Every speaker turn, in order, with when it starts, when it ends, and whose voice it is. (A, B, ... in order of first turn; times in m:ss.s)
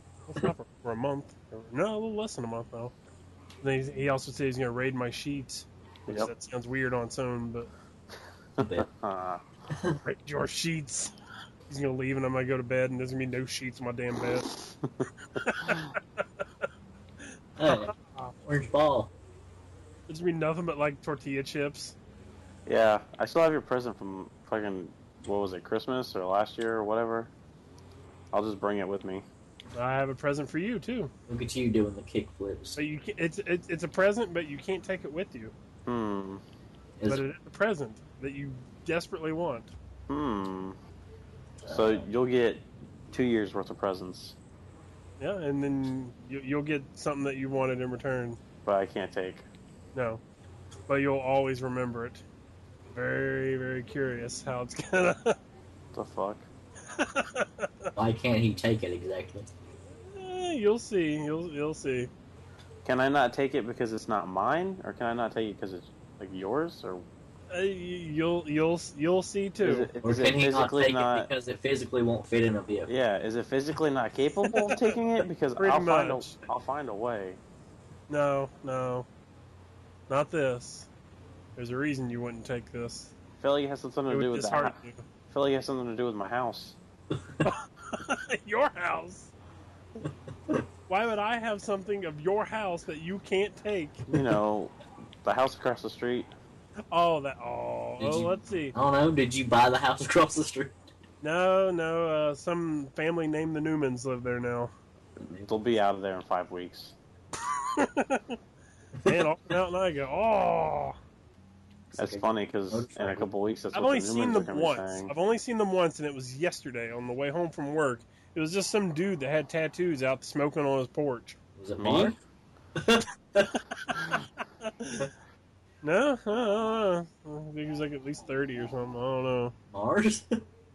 0:00.3-0:02.9 A
0:03.6-0:07.7 A
0:08.6-0:08.9 B
0:08.6-0:09.4 C
0:10.0-0:11.1 A
0:11.7-0:14.5 A
0:15.4-0:16.2 A
0:17.6-0:19.1 B
0:17.7-0:18.3 A
0:20.1-0:22.0 A
0:22.6-0:27.3 C
0:28.3-0:29.2 C
0:29.7-0:31.1 A
0:31.3-0:32.8 B
0:32.7-0:35.5 A
0:35.8-0:36.4 C
0:37.0-0:37.2 B
0:37.1-0:39.7 A
0:40.1-0:40.8 C
0:41.6-0:42.0 B
0:41.7-0:44.4 C
0:45.2-0:48.4 A
0:48.6-0:49.5 C
0:49.9-0:50.2 A
0:50.9-0:52.2 A
0:52.9-0:55.4 A
0:55.9-0:56.5 C
0:56.9-0:57.9 A
0:58.0-0:59.5 B
1:00.1-1:02.1 A
1:02.8-1:07.1 C
1:07.5-1:09.9 A
1:09.6-1:11.3 C
1:10.0-1:12.9 B
1:12.9-1:17.4 C
1:14.5-1:15.0 A
1:15.6-1:16.4 A
1:18.1-1:19.1 A
1:20.1-1:20.9 A
1:21.6-1:23.1 A
1:23.4-1:24.8 C
1:24.1-1:25.0 A
1:25.3-1:26.8 C
1:27.4-1:29.3 A
1:30.9-1:34.0 A
1:34.1-1:36.3 C
1:36.9-1:38.7 A
1:38.0-1:40.8 B
1:41.2-1:44.7 A
1:45.2-1:46.9 C
1:47.5-1:48.4 A
1:49.1-1:51.0 A
1:51.9-1:53.3 B
1:52.0-1:55.1 C
1:53.7-2:01.4 A
2:01.6-2:02.2 B
2:01.8-2:02.1 C
2:02.8-2:03.5 B
2:04.6-2:05.1 A
2:05.8-2:09.5 A
2:09.7-2:10.4 B